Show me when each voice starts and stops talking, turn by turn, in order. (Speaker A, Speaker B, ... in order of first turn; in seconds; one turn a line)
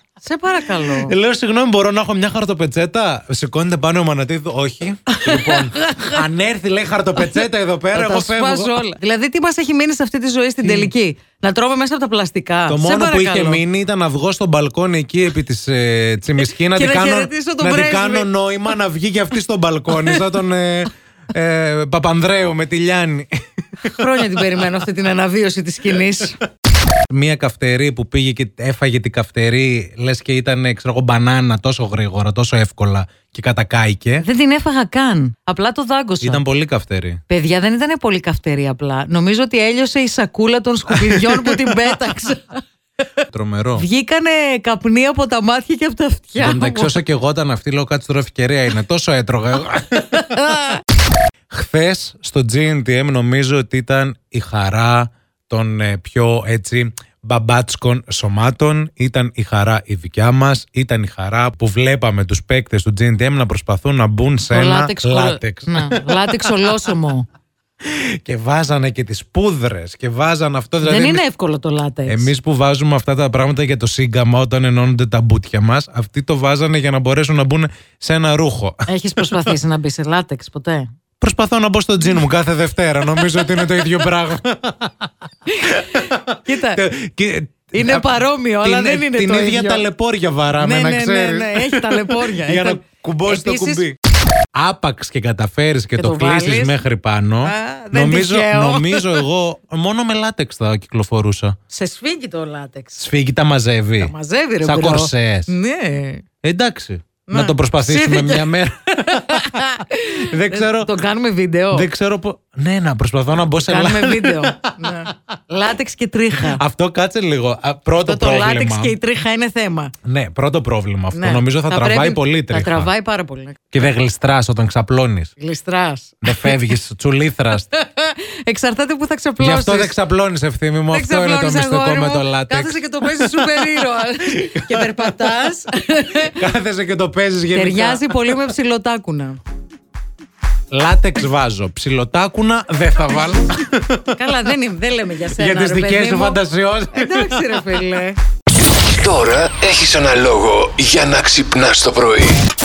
Speaker A: 0.2-1.1
Speaker B: 0.8-8.8
Speaker A: 5.1-6.2
Speaker A: 7.2-13.6
Speaker B: 10.6-10.9
Speaker B: 12.7-23.3
Speaker A: 16.5-18.3
Speaker A: 23.9-26.4
Speaker B: 27.1-34.2
Speaker A: 34.2-36.4
Speaker B: 36.2-37.2
Speaker A: 37.3-42.6
Speaker B: 40.9-41.7
Speaker B: 43.3-43.9
Speaker A: 43.8-47.0
Speaker B: 46.4-50.7
Speaker A: 50.1-50.8
Speaker B: 51.5-66.5
Speaker A: 64.5-67.2
Speaker B: 67.8-71.2
Speaker A: 70.8-72.3
Speaker B: 72.0-79.5
Speaker A: 78.9-80.9
Speaker B: 81.2-85.1
Speaker A: 85.5-86.8
Speaker B: 85.7-94.0
Speaker A: 87.7-89.8
Speaker A: 90.6-93.8
Speaker B: 94.5-101.5
Speaker A: 96.0-96.8
Speaker A: 97.4-99.2
Speaker A: 101.7-103.0
Speaker B: 103.0-105.5
Speaker A: 104.0-106.2
Speaker B: 106.4-110.9
Speaker A: 107.3-111.9
Speaker B: 111.7-115.1
Speaker A: 113.5-116.6
Speaker B: 116.4-119.0
Speaker A: 118.0-119.9
Speaker B: 120.0-122.9
Speaker A: 121.1-123.7
Speaker B: 123.7-125.3
Speaker A: 125.4-126.7
Speaker B: 126.2-127.7
Speaker A: 127.7-130.0
Speaker B: 129.4-135.4
Speaker A: 130.9-136.4
Speaker B: 136.3-138.5
Speaker A: 137.5-139.4
Speaker B: 140.7-144.2
Speaker A: 144.1-146.4
Speaker B: 145.3-147.7
Speaker A: 146.9-148.2
Speaker C: 148.8-152.4